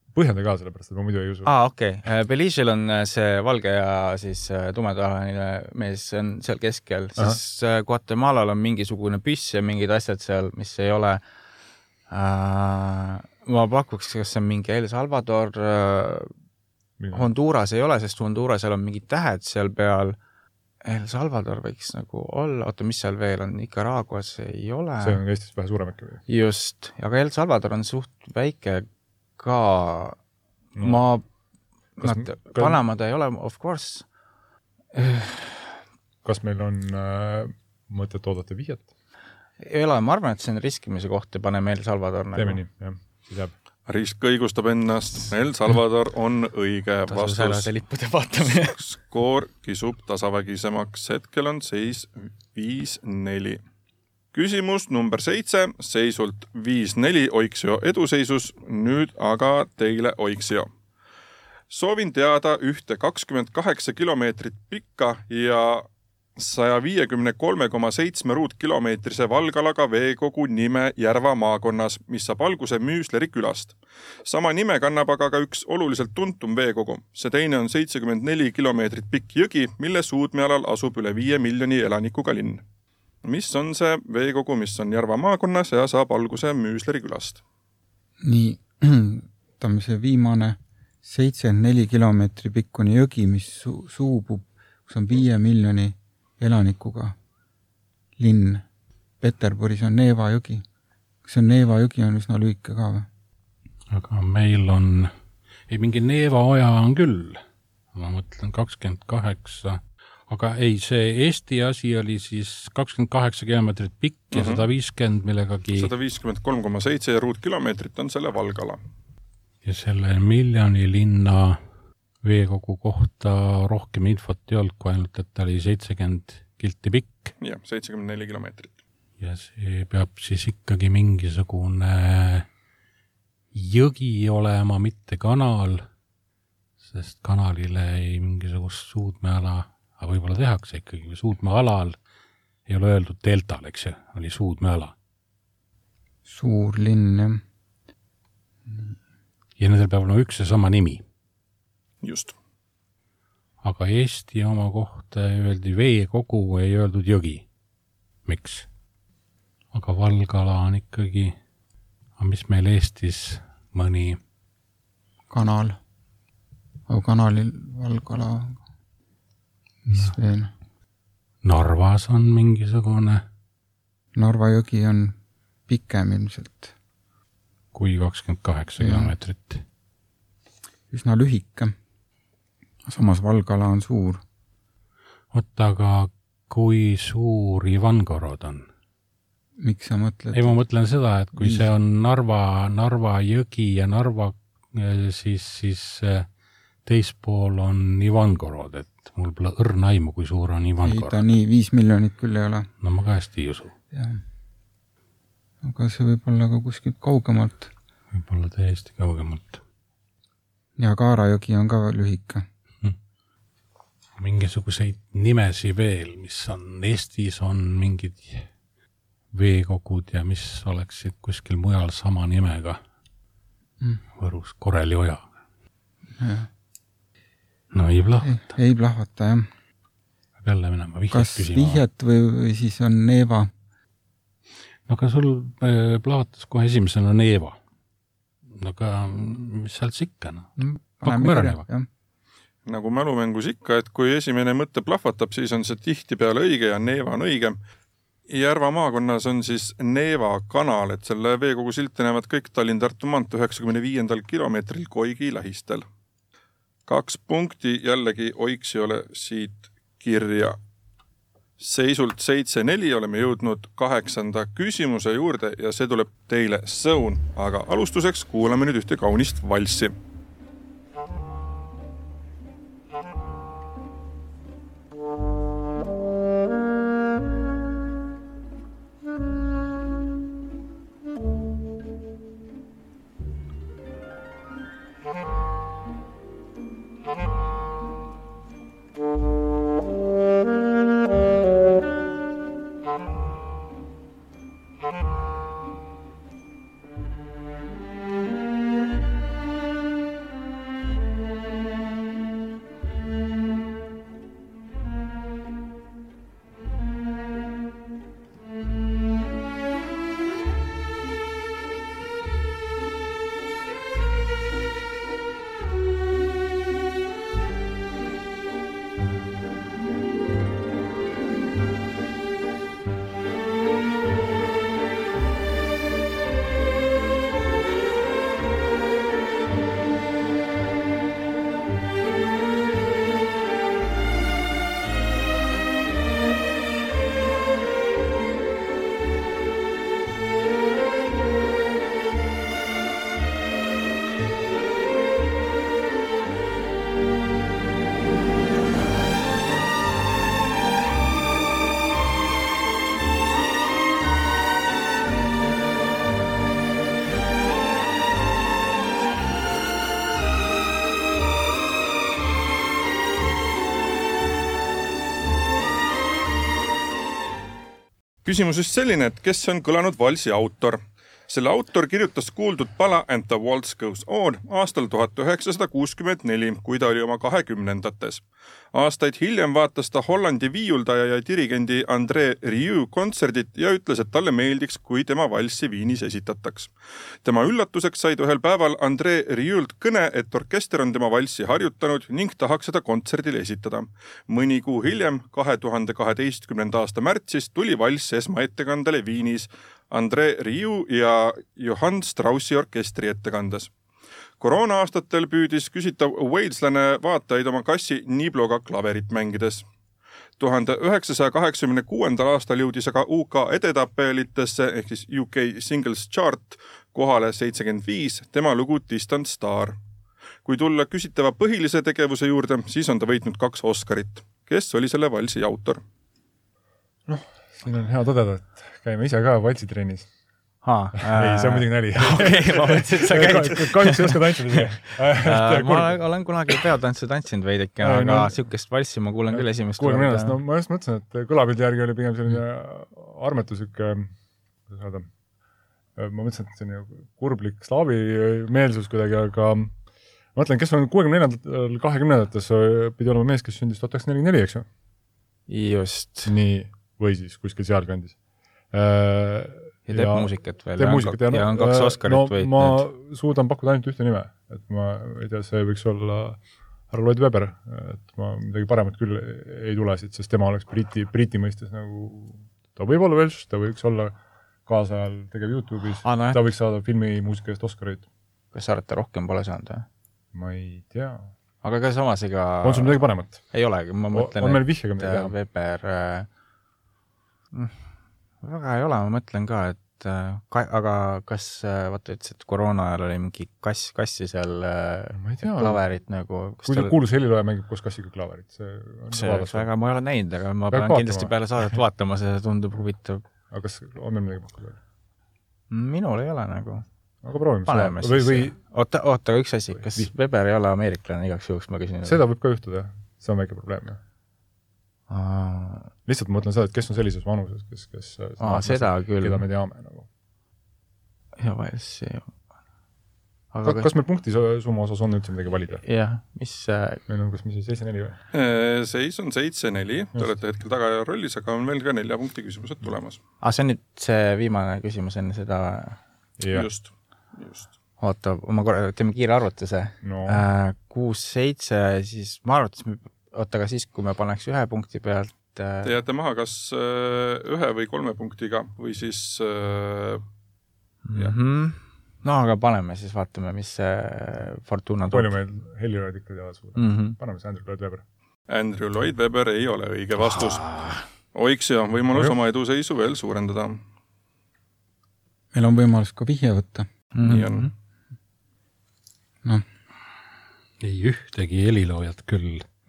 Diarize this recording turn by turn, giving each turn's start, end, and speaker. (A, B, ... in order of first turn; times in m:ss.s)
0:00.1-0:01.5 A
0:01.4-0:11.2 B
0:12.1-0:16.3 B
0:17.0-0:17.2 A
0:17.1-0:20.2 B
0:20.8-0:25.2 B
0:25.0-0:26.2 A
0:26.3-0:28.8 B
0:29.4-0:30.2 B
0:30.8-0:31.0 A
0:30.8-0:31.2 B
0:32.0-0:34.0 B
0:32.0-0:32.8 A
0:34.9-0:35.7 B
0:36.2-0:38.9 A
0:39.6-0:42.6 B
0:42.3-0:43.5 A
0:43.9-0:47.7 C
0:47.1-0:48.8 B
0:48.4-0:53.6 C
0:54.3-1:00.7 C
1:01.7-1:22.6 C
1:23.2-1:27.4 C
1:28.2-1:37.2 D
1:38.2-1:38.6 D
1:39.2-1:40.6 D
1:41.2-1:43.1 D
1:43.9-1:45.1 E
1:45.7-1:47.4 E
1:47.9-1:55.9 E
1:54.3-1:54.6 C
1:55.7-1:58.8 C
1:59.6-2:01.6 E
2:02.2-2:07.3 E
2:07.4-2:08.8 C
2:09.2-2:12.5 E
2:13.5-2:15.8 E
2:16.8-2:22.0 E
2:22.7-2:24.9 E
2:26.2-2:27.4 D
2:28.7-2:28.9 D
2:29.6-2:31.0 E
2:32.0-2:32.3 C
2:33.6-2:37.4 E
2:38.2-2:38.6 E
2:39.7-2:41.3 E
2:42.2-2:44.2 E
2:45.3-2:45.8 D
2:46.9-2:48.6 D
2:49.9-2:50.5 D
2:51.4-2:53.2 E
2:54.1-2:55.2 D
2:55.7-2:56.7 D
2:57.7-2:59.6 E
2:58.8-2:59.1 D
3:00.9-3:01.7 D
3:02.8-3:04.2 D
3:05.3-3:08.6 E
3:09.6-3:10.6 D
3:10.3-3:16.3 E
3:11.4-3:11.7 D
3:16.8-3:21.2 E
3:20.8-3:22.7 D
3:22.8-3:23.7 E
3:23.9-3:24.2 D
3:25.6-3:27.7 D
3:28.1-3:29.6 E
3:30.8-3:32.4 D
3:34.2-3:38.4 E
3:39.3-3:42.8 E
3:44.2-3:45.3 E
3:46.2-3:46.5 D
3:47.7-3:48.4 E
3:48.2-3:49.5 D
3:50.4-3:51.8 E
3:51.1-3:53.5 D
3:54.9-3:57.6 E
3:58.5-4:00.5 E
4:00.6-4:01.9 D
4:01.0-4:01.6 E
4:02.6-4:07.6 C
4:08.3-4:15.8 C
4:16.9-4:20.6 C
4:21.6-4:29.9 C
6:08.2-6:18.2 C
6:18.7-6:26.7 C
6:27.2-6:43.7 C
6:44.4-6:49.6 C
6:50.4-6:59.8 C
7:00.4-7:05.8 C
7:07.1-7:10.1 A
7:10.6-7:20.4 B
7:11.0-7:16.0 A
7:17.8-7:18.4 A
7:19.3-7:24.1 A
7:24.7-7:25.1 A
7:26.0-7:29.8 A
7:30.3-7:34.6 A
7:35.5-7:36.3 B
7:36.2-7:38.2 A
7:38.7-7:58.0 A
7:39.9-7:42.8 B
7:56.0-7:56.4 B
7:58.5-7:59.8 B
8:00.3-8:01.3 A
8:01.6-8:06.3 B
8:02.6-8:03.5 A
8:04.1-8:05.3 A
8:08.4-8:16.9 B
8:15.1-8:15.8 A
8:16.6-8:19.7 A
8:19.1-8:23.2 B
8:20.7-8:21.3 A
8:23.5-8:24.8 A
8:25.7-8:26.8 B
8:27.2-8:28.5 A
8:27.6-8:32.2 B
8:29.8-8:30.1 A
8:32.0-8:34.0 A
8:35.1-8:35.9 B
8:36.0-8:40.0 A
8:38.4-8:39.4 B
8:41.4-8:42.3 B
8:43.5-8:43.9 B
8:43.6-8:45.8 A
8:45.8-8:47.0 B
8:47.1-8:48.2 A
8:48.3-8:53.2 C
8:53.4-8:56.0 B
8:56.4-8:56.7 A
8:56.5-8:57.7 C
8:58.0-9:05.9 B
9:00.0-9:00.4 A
9:05.8-9:10.2 C
9:11.0-9:15.3 B
9:15.1-9:18.0 A
9:16.8-9:17.2 B
9:18.5-9:20.7 C
9:20.4-9:21.0 B
9:21.3-9:23.8 C
9:25.5-9:26.9 D
9:27.1-9:27.7 B
9:27.2-9:27.7 C
9:30.8-9:32.7 E